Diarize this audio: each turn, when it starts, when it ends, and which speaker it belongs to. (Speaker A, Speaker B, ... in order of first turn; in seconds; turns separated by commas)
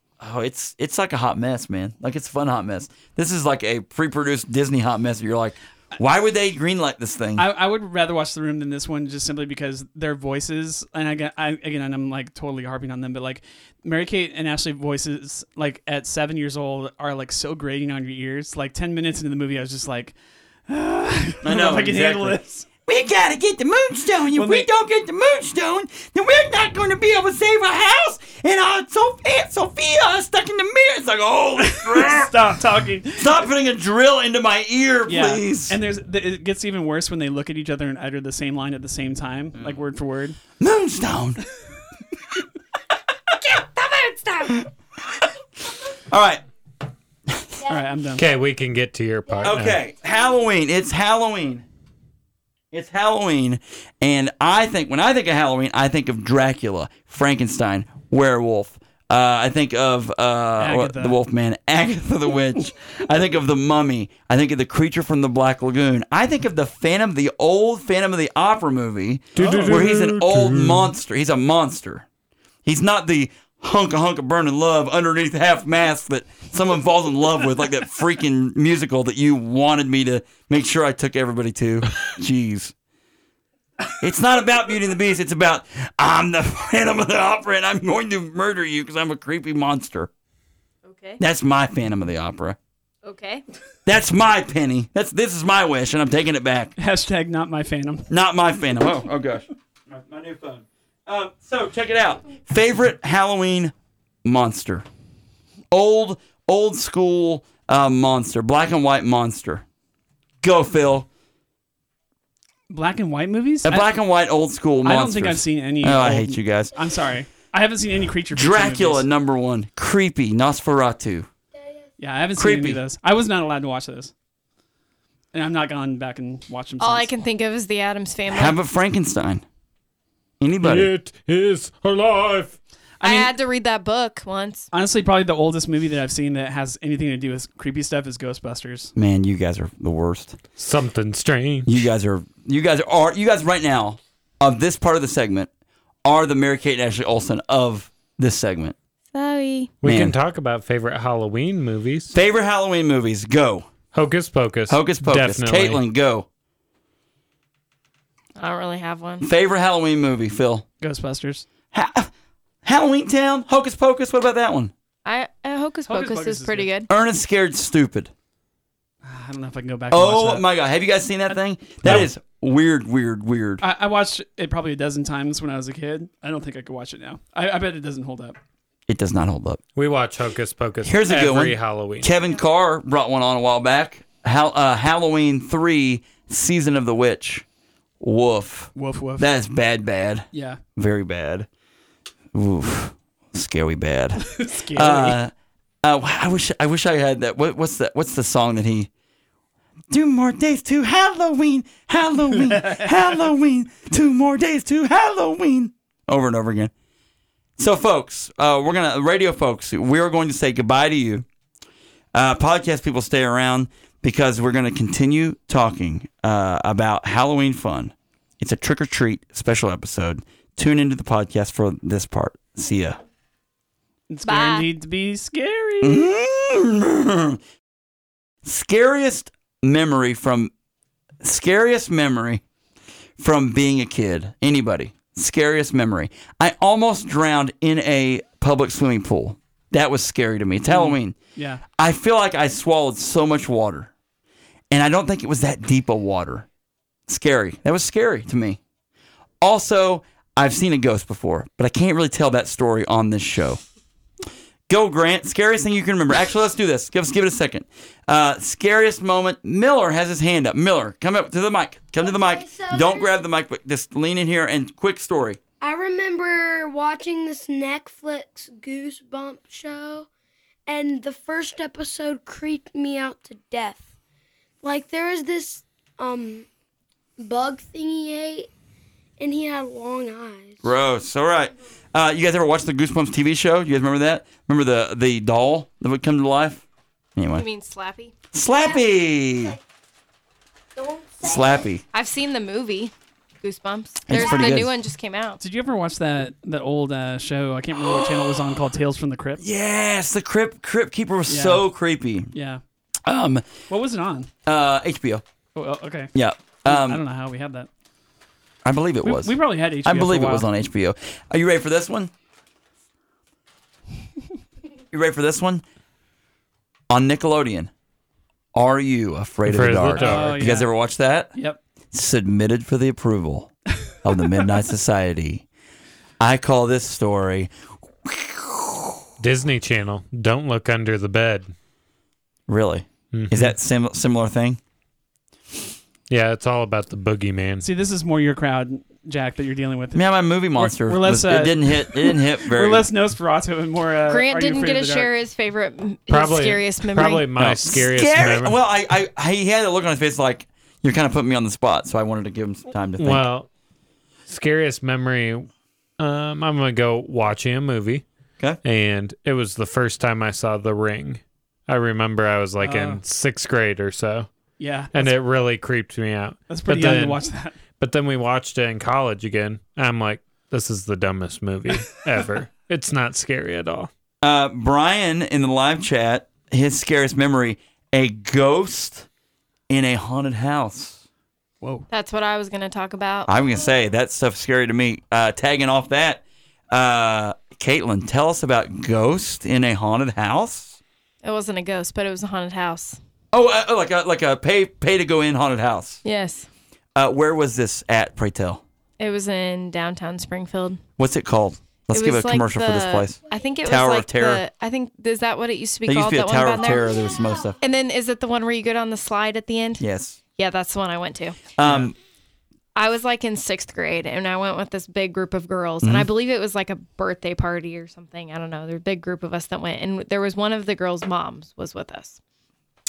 Speaker A: 0.2-7.5, Speaker B: 7.4-20.1, Speaker B: 20.7-22.7, Speaker A: 21.4-32.3, Speaker B: 24.3-24.7, Speaker B: 31.6-33.4, Speaker A: 33.1-35.8, Speaker B: 35.1-40.4, Speaker A: 40.6-41.4, Speaker C: 43.5-44.5, Speaker A: 46.0-46.4, Speaker C: 47.6-47.9, Speaker B: 47.7-48.2, Speaker D: 48.2-49.8, Speaker C: 49.2-49.6, Speaker A: 49.4-51.6, Speaker A: 52.7-72.0, Speaker B: 60.6-61.2, Speaker D: 69.3-70.9, Speaker B: 69.4-69.9, Speaker A: 72.6-82.7, Speaker A: 84.0-90.1, Speaker E: 90.8-91.2, Speaker A: 91.2-92.6, Speaker E: 93.0-93.4, Speaker A: 93.8-96.7, Speaker B: 96.8-98.1, Speaker A: 98.1-103.7, Speaker A: 104.2-104.8, Speaker A: 105.7-109.6, Speaker A: 110.4-111.1, Speaker B: 112.7-113.9, Speaker A: 113.6-116.7, Speaker B: 114.8-119.0, Speaker A: 118.3-121.3, Speaker C: 121.5-121.9, Speaker B: 122.0-124.1, Speaker A: 122.4-122.8, Speaker B: 125.3-127.1, Speaker E: 126.8-128.6, Speaker A: 128.3-129.4, Speaker A: 130.4-130.9, Speaker D: 130.6-132.6, Speaker B: 133.0-133.3, Speaker E: 133.0-134.7, Speaker B: 134.7-138.9, Speaker A: 138.9-140.4, Speaker D: 140.6-141.7, Speaker A: 141.7-145.5, Speaker A: 146.0-148.7, Speaker E: 149.1-149.8, Speaker D: 149.8-152.1, Speaker A: 149.8-150.1, Speaker A: 152.1-153.7, Speaker D: 153.9-155.8, Speaker A: 154.7-156.3, Speaker E: 158.4-159.2, Speaker A: 159.2-160.6, Speaker B: 160.8-161.5, Speaker A: 161.7-162.1, Speaker A: 162.6-164.7, Speaker E: 165.0-166.9, Speaker B: 165.9-166.7, Speaker A: 166.9-168.1, Speaker B: 169.0-170.4, Speaker A: 169.9-173.6, Speaker D: 171.8-172.1, Speaker B: 173.6-178.4, Speaker A: 178.9-179.6, Speaker D: 179.7-182.1, Speaker A: 180.8-187.4, Speaker A: 188.0-191.5, Speaker B: 188.8-189.3, Speaker B: 190.3-190.6, Speaker A: 192.3-195.3, Speaker B: 194.2-195.2, Speaker A: 195.8-198.9, Speaker A: 199.9-206.7, Speaker B: 202.4-202.9, Speaker A: 207.6-211.2, Speaker A: 212.1-223.0, Speaker B: 224.1-226.1, Speaker E: 224.2-224.7, Speaker A: 225.8-227.4, Speaker A: 228.4-230.5, Speaker A: 231.2-232.4, Speaker A: 233.2-241.2, Speaker B: 240.7-241.6, Speaker A: 241.7-243.9, Speaker A: 244.7-246.5, Speaker A: 247.1-248.6, Speaker A: 249.4-253.6, Speaker A: 254.7-265.4, Speaker C: 262.0-263.2, Speaker C: 265.6-270.1, Speaker C: 270.7-273.9, Speaker C: 274.6-276.5, Speaker C: 277.2-278.5, Speaker C: 279.2-280.6, Speaker A: 280.6-286.6, Speaker A: 287.1-287.4, Speaker E: 287.3-288.1, Speaker A: 288.3-289.6, Speaker C: 288.6-289.6, Speaker C: 290.8-291.8, Speaker A: 291.2-291.8, Speaker E: 291.9-295.4, Speaker A: 294.1-294.7, Speaker C: 294.1-294.4, Speaker B: 295.4-299.4, Speaker A: 297.8-298.3, Speaker A: 299.4-302.3, Speaker B: 301.3-301.6, Speaker B: 302.3-302.6, Speaker A: 303.0-303.5, Speaker B: 303.7-304.3, Speaker A: 304.4-305.2, Speaker B: 305.5-306.1, Speaker A: 306.1-307.0, Speaker B: 306.6-307.7, Speaker A: 308.6-312.1, Speaker B: 309.0-310.5, Speaker A: 314.9-315.6, Speaker A: 316.9-317.7, Speaker A: 318.5-321.3, Speaker D: 319.5-320.4, Speaker B: 319.9-320.7, Speaker A: 321.9-325.4, Speaker A: 326.2-327.5, Speaker A: 328.0-329.0, Speaker D: 329.2-331.5, Speaker A: 332.5-334.6, Speaker D: 333.1-333.5, Speaker D: 336.1-337.6, Speaker B: 337.6-340.0, Speaker A: 339.9-342.9, Speaker B: 340.6-345.1, Speaker E: 344.1-347.4, Speaker D: 346.1-348.5, Speaker A: 347.4-353.2, Speaker D: 353.0-353.5, Speaker D: 354.3-355.5, Speaker D: 356.0-358.0, Speaker D: 358.6-364.3, Speaker B: 362.6-363.0, Speaker B: 364.6-365.1, Speaker D: 364.9-367.2, Speaker B: 366.5-367.6, Speaker D: 367.8-373.9, Speaker A: 374.2-379.1, Speaker A: 379.7-381.0, Speaker B: 381.6-381.9, Speaker E: 381.9-383.3, Speaker A: 383.2-390.8, Speaker E: 391.2-393.0, Speaker A: 393.3-396.0, Speaker E: 396.0-396.5, Speaker A: 396.9-398.6, Speaker E: 399.0-400.8, Speaker A: 401.0-404.4, Speaker E: 401.9-406.9, Speaker A: 405.9-407.6, Speaker C: 406.6-407.5, Speaker E: 407.6-409.8, Speaker A: 409.8-410.2, Speaker E: 410.4-411.5, Speaker A: 411.6-411.9, Speaker B: 411.6-411.9, Speaker E: 412.8-422.2, Speaker A: 415.8-416.1